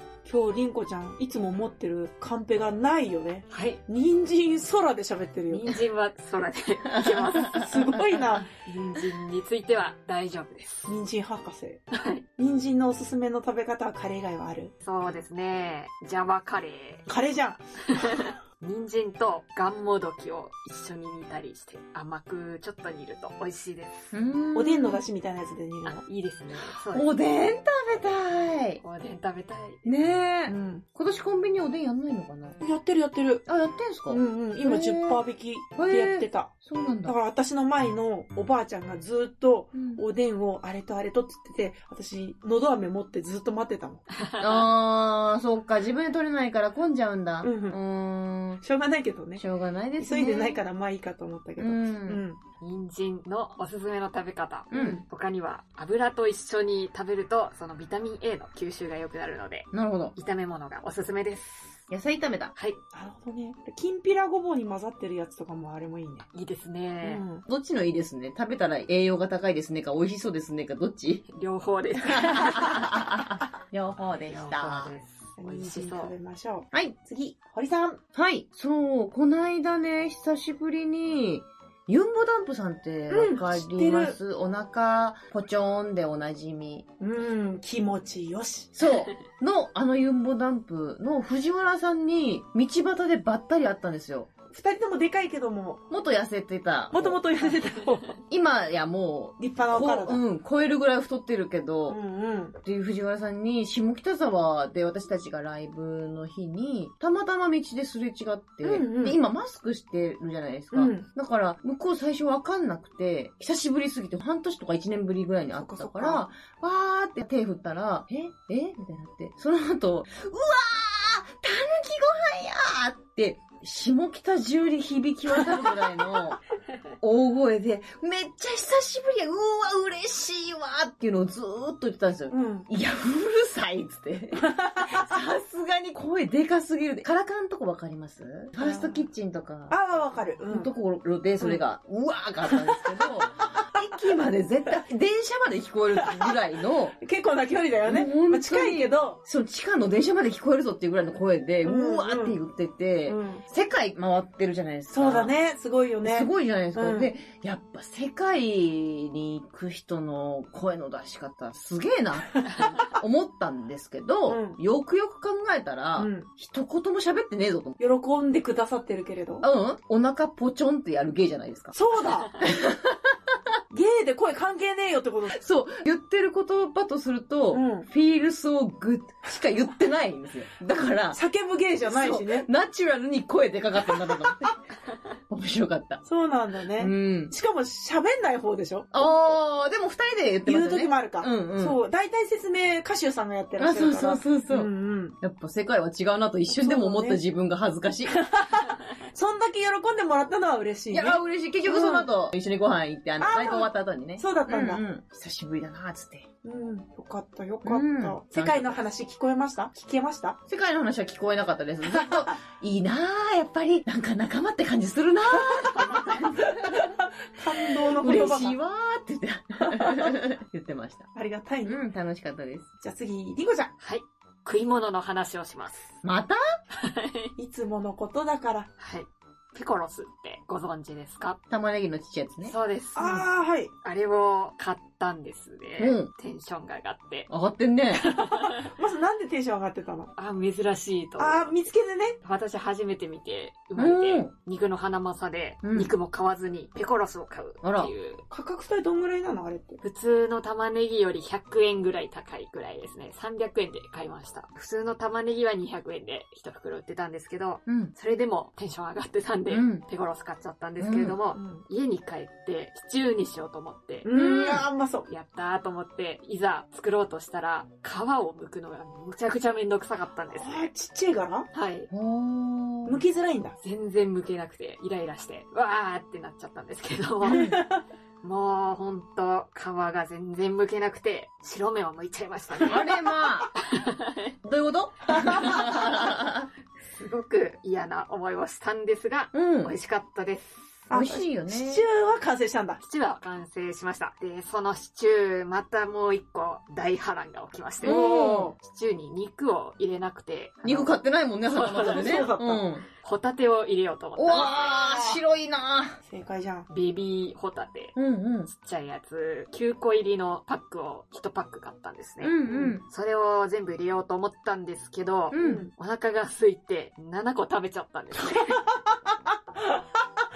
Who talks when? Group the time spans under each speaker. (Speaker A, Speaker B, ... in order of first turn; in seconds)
Speaker A: 0.2-5.7, 7.5-8.5, 10.9-11.8, 12.4-14.7, 17.1-18.2, 24.5-26.0, 30.5-30.8, 32.6-33.4, 34.1-44.0, 47.4-47.8, 48.6-49.4, 50.0-52.4, 54.7-55.0, 62.9-66.2, 67.0-67.4, 75.4-78.0, 83.1-84.2, 87.0-88.7, 94.5-95.8, 96.9-98.2, 99.4-100.2, 101.9-102.5, 108.6-109.2, 110.7-111.1, 115.5-116.2, 132.3-132.7, 134.3-135.1, 138.6-139.1, 139.7-140.7, 142.4-144.1, 145.9-146.3, 147.0-149.2, 151.6-152.4, 153.1-153.4, 154.9-157.1, 164.3-164.6, 165.9-166.3, 167.8-169.4, 171.7-172.4, 173.7-175.4, 177.5-177.9, 181.1-182.5, 183.9-184.3, 186.0-189.4, 190.4-195.2, 196.5-197.2, 198.1-202.1, 203.2-204.8, 206.4-210.4, 211.9-212.3, 215.3-218.6, 219.6-220.1, 221.1-221.8, 222.8-223.7, 227.4-228.7, 232.9-233.7, 238.1-240.1, 241.2-242.2, 248.3-249.8, 261.3-261.6, 264.0-265.1, 270.3-271.5, 272.8-273.6, 277.3-277.8, 285.1-285.7, 290.9-292.8, 297.8-298.6, 301.7-302.6, 304.3-305.2, 306.1-306.7, 312.5-312.8, 315.4-315.7, 318.3-318.8
Speaker B: 3.5-3.8, 5.5-7.7, 8.5-10.9, 11.9-12.2, 14.8-17.0, 17.9-24.2, 25.9-27.1, 28.8-29.8, 44.1-44.7, 52.6-61.9, 66.3-67.2, 71.3-73.2, 74.2-76.1, 223.8-226.0, 226.7-227.3, 228.8-231.4, 232.4-233.3, 233.8-237.3, 238.0-238.7, 240.2-241.6, 242.2-248.2, 249.8-264.1, 265.1-270.7, 271.5-271.9, 273.6-277.5, 278.2-282.8, 283.5-284.4, 285.4-286.0, 286.8-290.9, 292.8-298.0, 298.6-302.3, 303.0-304.6, 306.7-307.9, 308.5-318.6
Speaker C: 6.9-8.0, 24.1-25.0, 26.9-28.8, 29.8-32.6, 33.5-35.2, 35.8-37.1, 39.7-40.0, 44.4-48.6, 49.4-50.6, 51.6-52.2, 54.7-55.0, 59.7-60.1, 61.9-62.5, 67.5-71.2, 72.0-74.9, 78.1-86.8, 88.7-94.3, 95.9-97.2, 98.3-102.0, 102.6-126.4, 127.0-139.8, 140.5-146.9, 147.8-155.3, 156.0-167.8, 169.4-171.8, 172.3-173.4, 175.3-181.2, 181.8-184.5, 185.3-186.0, 186.8-187.3, 188.9-191.8, 193.6-198.2, 200.9-206.3, 207.6-208.8, 210.5-216.9, 217.9-221.1, 221.6-222.7, 226.0-226.4, 231.5-232.5, 235.8-236.1, 237.3-238.1, 243.8-244.3, 245.6-245.9, 247.6-247.9, 257.7-257.9, 259.5-259.8, 260.8-261.1, 264.1-264.7, 271.9-273.0, 277.2-277.6, 282.7-283.5, 284.4-286.5, 289.3-289.7, 290.9-291.8, 297.8-298.5, 300.6-302.9, 304.2-306.0, 307.9-308.5, 312.2-312.8, 315.3-315.7